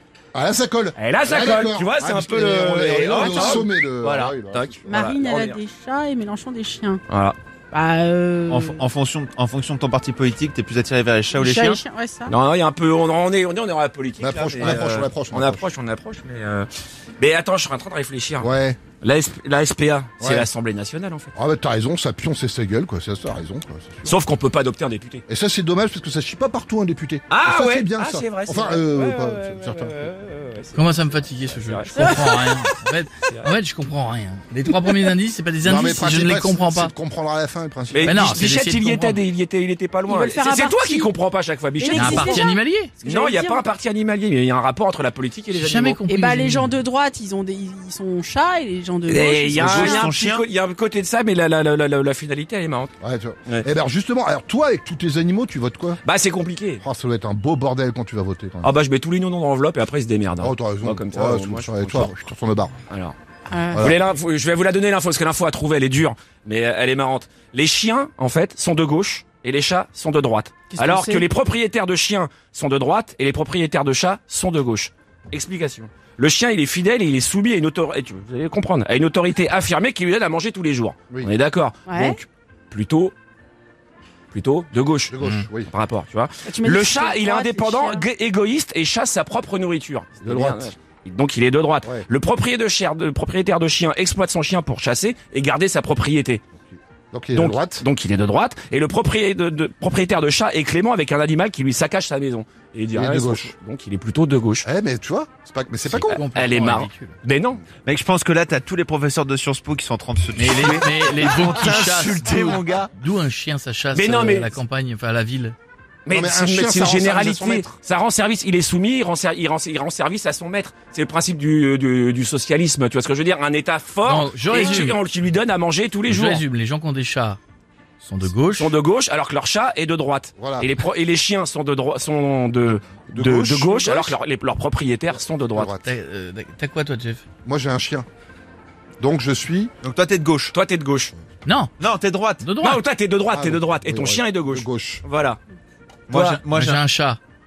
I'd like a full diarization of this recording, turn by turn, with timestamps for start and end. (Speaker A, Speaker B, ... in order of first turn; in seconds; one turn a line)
Speaker A: 0.3-5.0
Speaker B: 1.0-5.6
Speaker C: 3.1-3.6
Speaker C: 4.9-7.0
Speaker B: 7.1-7.4
Speaker C: 7.7-8.8
Speaker D: 8.5-11.8
Speaker C: 11.3-12.3
Speaker B: 12.3-16.7
Speaker A: 14.2-15.7
Speaker B: 17.2-21.3
Speaker A: 18.4-18.8
Speaker A: 20.2-20.5
Speaker A: 21.4-24.2
Speaker B: 24.1-25.2
Speaker A: 25.3-30.0
Speaker B: 27.3-32.2
Speaker E: 30.7-36.9
Speaker C: 32.0-32.5
Speaker A: 35.6-38.3
Speaker B: 37.9-42.5
Speaker E: 38.0-39.2
Speaker C: 40.1-41.1
Speaker C: 41.8-43.7
Speaker E: 41.9-42.9
Speaker B: 43.0-46.0
Speaker E: 45.5-46.7
Speaker C: 46.1-50.1
Speaker B: 49.1-52.9
Speaker D: 49.5-50.4
Speaker A: 53.0-56.0
Speaker B: 56.0-56.8
Speaker A: 56.8-58.7
Speaker B: 58.6-62.1
Speaker A: 60.4-62.8
Speaker B: 62.9-63.2
Speaker C: 63.5-63.9
Speaker B: 63.8-83.1
Speaker C: 70.7-71.3
Speaker C: 81.9-82.2
Speaker B: 84.3-85.2
Speaker A: 85.1-85.7
Speaker E: 85.2-85.5
Speaker B: 85.7-96.4
Speaker C: 86.5-88.1
Speaker A: 90.2-90.7
Speaker A: 96.7-97.8
Speaker B: 97.3-104.7
Speaker A: 102.9-103.5
Speaker A: 104.6-106.2
Speaker E: 105.9-107.2
Speaker B: 106.1-107.6
Speaker D: 107.8-112.9
Speaker E: 110.3-115.6
Speaker B: 113.9-114.6
Speaker B: 116.1-126.4
Speaker A: 116.1-117.7
Speaker E: 124.0-125.0
Speaker E: 126.1-127.4
Speaker E: 128.0-128.8
Speaker B: 128.6-135.7
Speaker A: 130.4-130.7
Speaker A: 133.1-134.2
Speaker A: 135.1-135.9
Speaker E: 135.8-137.2
Speaker A: 137.4-138.1
Speaker A: 139.0-139.7
Speaker D: 139.8-140.6
Speaker B: 140.5-141.1
Speaker E: 141.4-141.7
Speaker D: 141.8-142.5
Speaker E: 142.4-142.8
Speaker B: 142.6-145.4
Speaker A: 143.3-145.0
Speaker D: 146.1-146.8
Speaker B: 146.1-146.4
Speaker E: 146.6-147.2